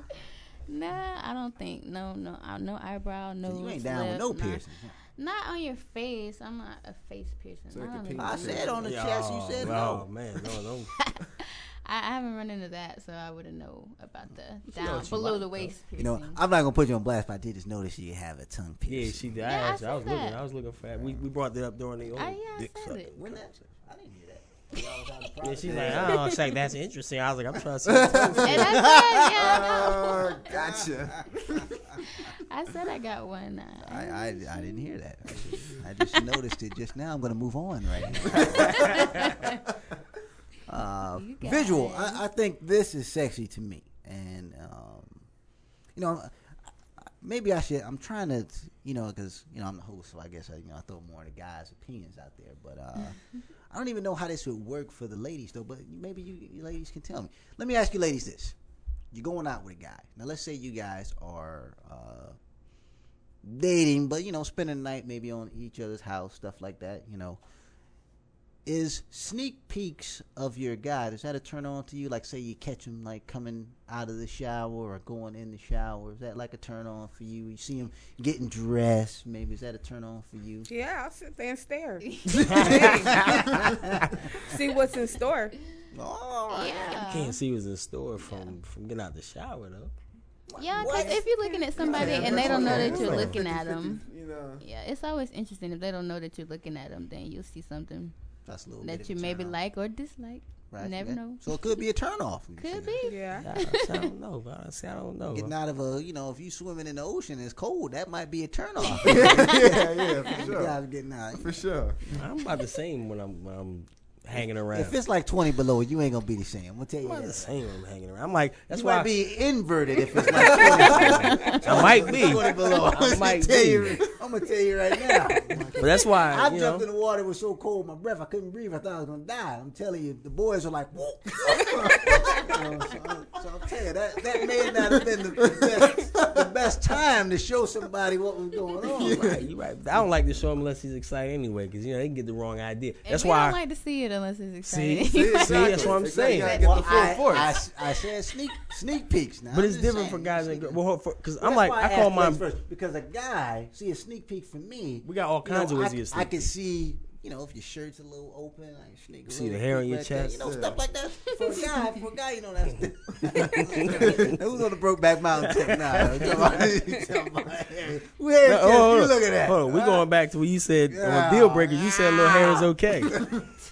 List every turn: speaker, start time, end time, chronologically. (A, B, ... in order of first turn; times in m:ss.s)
0:00.7-0:08.8 A
0:03.4-0:05.0 B
0:07.7-0:08.9 C
0:08.2-0:10.1 B
0:08.8-0:10.9 D
0:10.4-0:16.4 A
0:14.7-0:15.8 D
0:16.0-0:19.3 B
0:18.8-0:23.6 D
0:19.4-0:20.4 A
0:20.9-0:21.2 C
0:22.1-0:23.1 A
0:23.1-0:26.2 B
0:25.4-0:28.8 D
0:25.6-0:26.3 C
0:26.3-0:26.5 A
0:27.8-0:28.8 C
0:28.2-0:31.2 B
0:28.4-0:30.5 A
0:29.3-0:31.8 C
0:32.0-0:34.9 A
0:33.8-0:39.2 B
0:38.6-0:39.6 A
0:40.7-0:45.2 B
0:41.1-0:42.2 A
0:45.9-0:46.3 B
0:47.0-0:53.2 B
0:53.7-0:58.5 B
0:59.1-1:02.4 B
1:03.4-1:07.4 B
1:08.6-1:20.7 B
1:20.7-1:23.2 E
1:22.4-1:24.1 D
1:22.4-1:24.4 B
1:24.4-1:25.5 E
1:25.9-1:27.0 B
1:26.5-1:27.4 A
1:26.9-1:29.9 D
1:28.2-1:28.6 A
1:30.5-1:31.2 B
1:30.6-1:34.0 A
1:31.0-1:32.6 E
1:31.7-1:33.5 B
1:31.8-1:34.6 C
1:32.6-1:33.2 D
1:34.6-1:38.1 A
1:38.4-1:39.6 B
1:38.8-1:41.8 A
1:40.7-1:43.1 B
1:42.6-1:44.1 A
1:43.0-1:43.5 E
1:43.4-1:45.5 D
1:45.3-1:51.6 B
1:49.0-1:50.8 C
1:50.2-1:50.5 A
1:51.3-1:52.2 C
1:52.1-1:55.0 D
1:54.7-1:57.5 B
1:57.0-1:59.1 D
1:58.7-2:19.4 B
2:00.2-2:02.8 C
2:00.8-2:04.0 D
2:01.0-2:01.5 A
2:05.3-2:05.8 E
2:05.8-2:06.9 D
2:11.5-2:12.4 C
2:14.8-2:16.4 C
2:18.9-2:19.4 C
2:18.9-2:23.6 D
2:23.0-2:27.4 A
2:24.6-2:26.6 D
2:25.1-2:27.6 C
2:26.6-2:30.8 B
2:29.5-2:32.4 D
2:31.4-2:50.1 B
2:35.0-2:36.5 D
2:39.3-2:40.5 D
2:40.4-2:40.8 C
2:41.2-2:41.8 A
2:43.3-2:44.4 D
2:45.4-2:46.7 D
2:46.8-2:47.1 E
2:48.4-2:53.2 D
2:50.9-2:52.7 B
2:52.0-2:52.6 A
2:53.0-2:53.4 C